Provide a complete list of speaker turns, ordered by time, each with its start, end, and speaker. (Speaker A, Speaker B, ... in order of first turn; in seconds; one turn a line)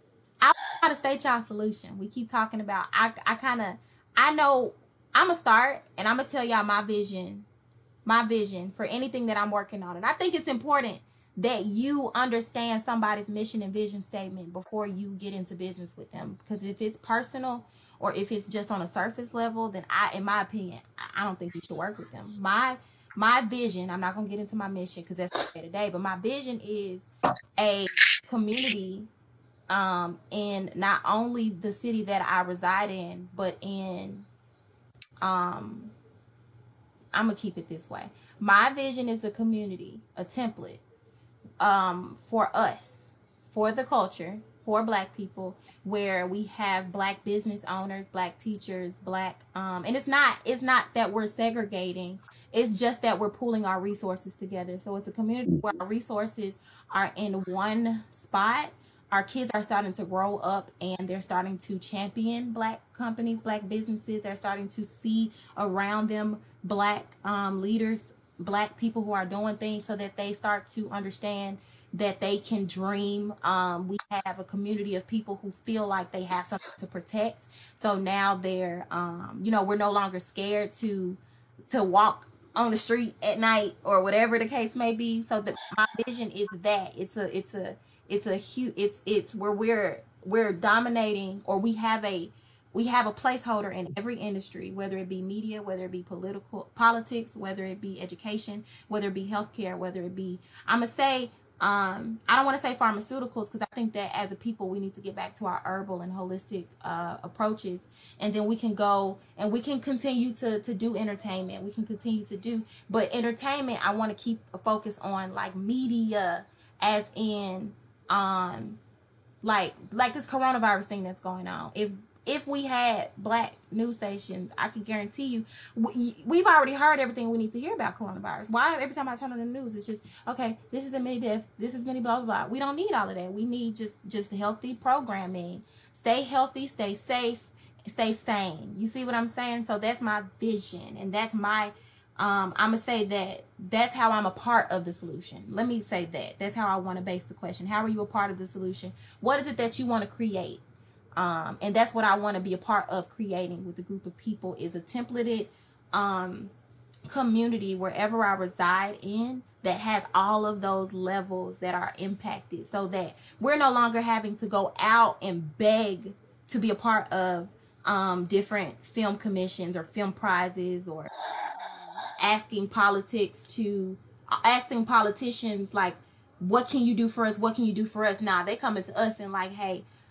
Speaker A: 0.4-7.5
Speaker A: 8.0-29.1
Speaker A: 29.7-34.3
Speaker A: 35.2-35.9
Speaker A: 37.1-40.8
Speaker A: 41.6-81.2
Speaker A: 81.7-118.8
Speaker A: 119.4-150.6
Speaker A: 151.2-156.5
Speaker A: 157.1-171.1
Speaker A: 172.2-179.8